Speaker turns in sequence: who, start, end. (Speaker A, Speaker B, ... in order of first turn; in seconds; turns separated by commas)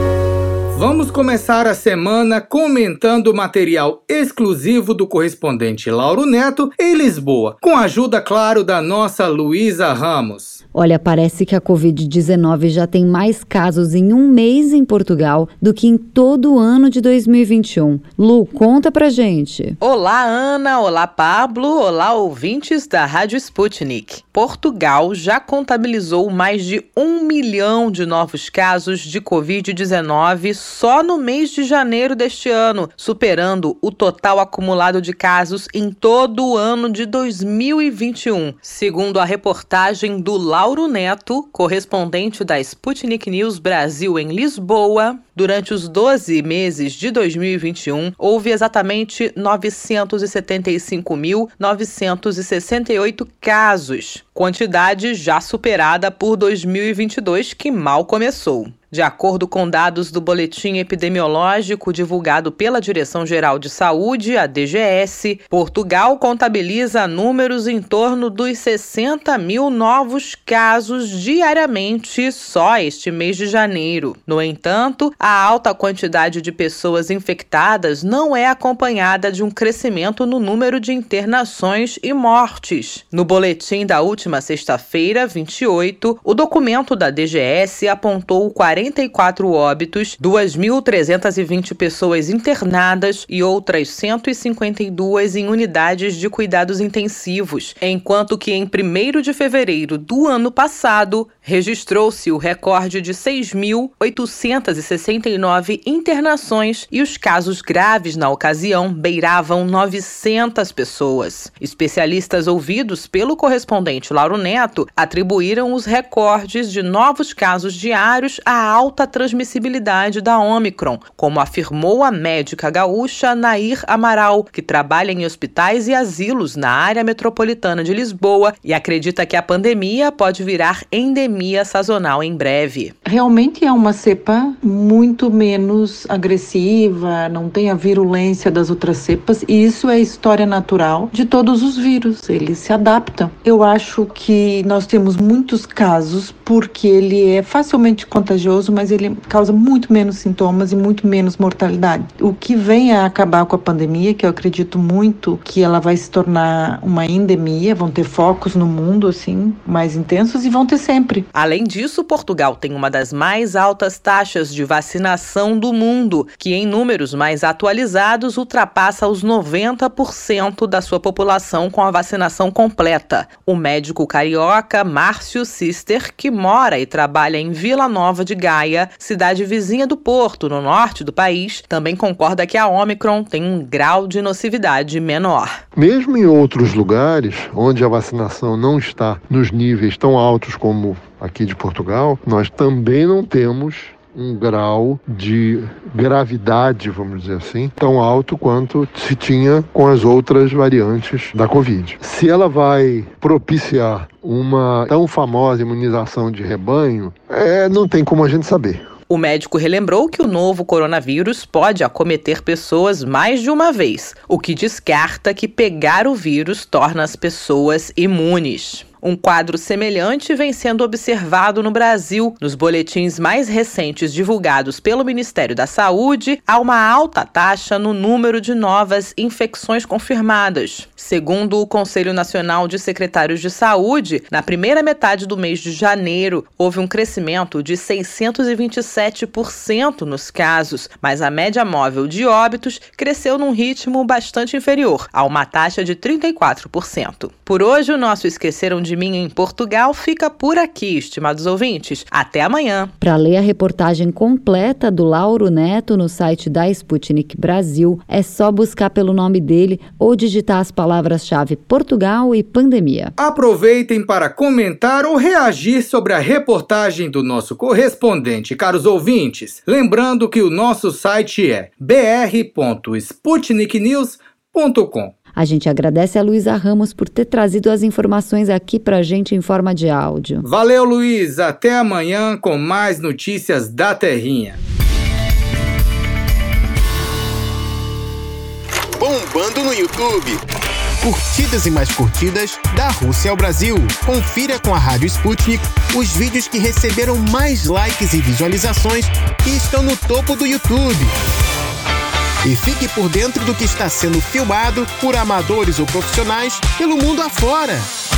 Speaker A: 0.7-10.6, Speaker B: 10.7-19.8, Speaker C: 19.8-132.9, Speaker D: 133.0-161.3, Speaker C: 161.3-185.6, Speaker E: 185.7-208.9, Speaker C: 209.1-252.9, Speaker B: 253.0-263.1, Speaker A: 263.2-275.1, Speaker B: 275.3-280.4, Speaker A: 280.4-284.6, Speaker F: 288.9-290.4, Speaker F: 291.0-301.1, Speaker F: 302.4-307.9